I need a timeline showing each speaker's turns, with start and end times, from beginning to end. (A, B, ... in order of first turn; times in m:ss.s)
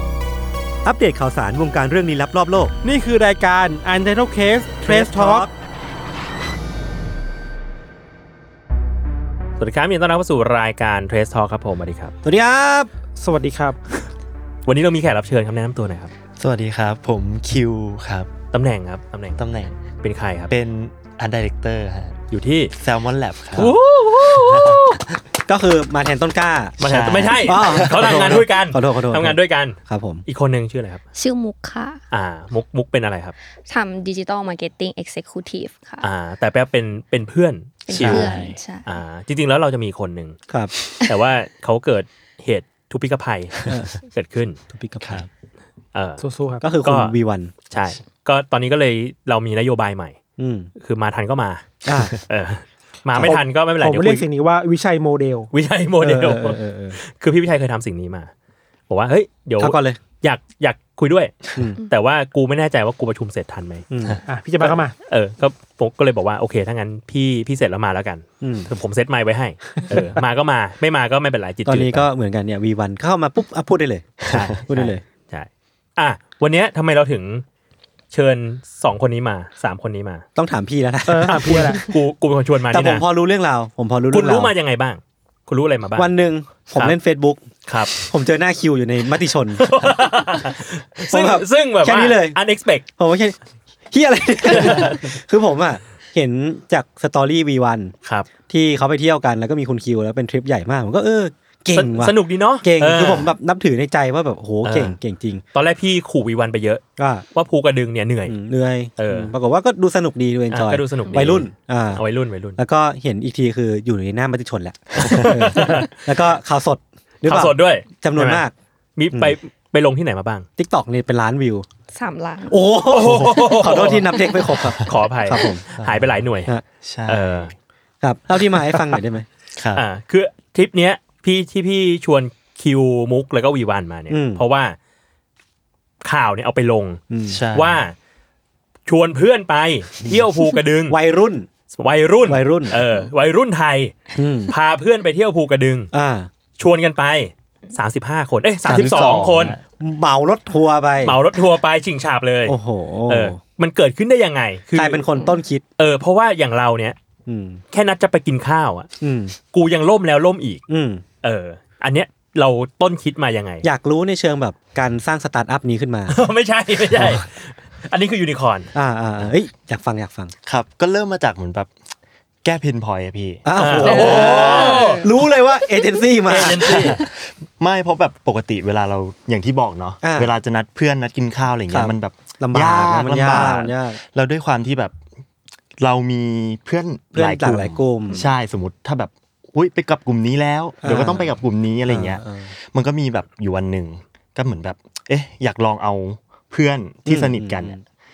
0:00.8-0:02.7 A
0:02.8-0:05.5 B
0:04.8-0:05.5 A
0:09.6-0:12.1 C
0:12.2-0:12.9 A
0:13.1-0:13.8 B
0:14.6-0:16.1 C
0:16.4-0:18.3 D
0:18.5-0:19.4 C
0:19.4-0:19.8 D
0:20.0-0:20.5 C
0:20.5-0:22.2 D
0:22.3-0:22.7 C
0:22.7-0:25.2 D
0:23.6-0:25.0 C
0:25.5-0:30.2 A
0:26.8-0:31.0 C
0:26.8-0:28.5 D
0:31.1-0:32.0 E
0:32.1-0:33.3 C
0:33.7-0:36.0 E
0:36.0-0:40.4 C
0:37.8-0:38.8 E
0:37.9-0:38.6 D
0:41.0-0:44.6 C
0:43.7-0:44.0 A
0:44.7-0:45.3 A
0:45.0-0:45.3 D
0:45.9-0:46.2 C
0:46.2-0:46.6 B
0:46.6-0:47.5 A
0:46.8-0:47.2 C
0:47.7-0:50.2 C
0:50.4-0:50.7 A
0:50.8-0:51.6 C
0:51.8-0:52.2 A
0:52.2-0:54.3 C
0:53.2-0:55.5 B
0:55.5-0:58.3 C
0:56.0-0:57.0 A
0:58.9-1:03.8 C
0:59.6-1:00.0 A
1:03.9-1:04.8 A
1:04.2-1:04.9 B
1:05.0-1:12.1 C
1:08.4-1:08.7 A
1:11.6-1:15.0 A
1:14.2-1:14.9 D
1:15.3-1:17.4 C
1:18.1-1:20.2 C
1:20.4-1:21.8 A
1:21.1-1:21.8 B
1:21.8-1:23.0 C
1:22.7-1:24.5 A
1:24.1-1:26.1 C
1:26.0-1:27.4 A
1:27.7-1:28.1 C
1:28.0-1:29.7 A
1:29.6-1:32.8 C
1:31.1-1:32.4 A
1:32.9-1:33.4 A
1:33.9-1:37.9 A
1:34.4-1:35.1 C
1:38.5-1:45.4 A
1:41.7-1:43.3 C
1:44.6-1:45.0 C
1:45.5-1:46.8 C
1:47.0-1:47.2 A
1:47.3-1:48.4 C
1:48.3-1:52.0 A
1:49.0-1:49.3 C
1:50.5-1:52.6 C
1:52.6-1:58.5 A
1:55.0-1:55.7 D
1:55.0-1:55.9 C
1:57.2-1:58.4 C
1:59.0-2:00.5 C
2:00.6-2:01.6 A
2:01.9-2:02.6 E
2:02.5-2:05.6 A
2:02.9-2:06.5 C
2:03.0-2:04.0 D
2:05.7-2:06.2 D
2:06.8-2:07.5 D
2:07.1-2:07.5 C
2:08.0-2:09.2 A
2:09.5-2:09.8 D
2:09.7-2:14.8 C
2:14.1-2:14.4 A
2:16.0-2:17.0 C
2:17.1-2:17.4 A
2:17.3-2:17.8 D
2:17.5-2:17.9 C
2:18.9-2:21.0 C
2:20.9-2:21.5 A
2:21.7-2:25.9 C
2:22.3-2:22.8 A
2:24.2-2:24.5 A
2:25.9-2:26.3 A
2:26.6-2:29.6 C
2:28.6-2:29.6 D
2:29.8-2:31.2 A
2:31.0-2:35.0 C
2:32.5-2:33.4 A
2:34.7-2:35.6 A
2:35.8-2:37.0 C
2:37.3-2:37.6 A
2:37.7-2:38.9 C
2:39.0-2:39.4 A
2:39.5-2:40.6 C
2:40.7-2:41.0 A
2:41.2-2:43.6 C
2:43.6-2:46.2 A
2:46.1-2:48.7 C
2:48.7-2:50.3 A
2:50.4-2:51.7 D
2:52.4-2:54.7 D
2:53.4-2:56.9 A
2:53.6-2:55.1 C
2:53.8-2:55.1 E
2:56.3-2:57.0 C
2:56.7-3:05.0 D
3:00.0-3:00.3 A
3:01.7-3:04.0 A
3:05.8-3:17.8 D
3:07.1-3:08.3 A
3:10.8-3:11.3 A
3:11.9-3:12.5 A
3:17.1-3:17.8 A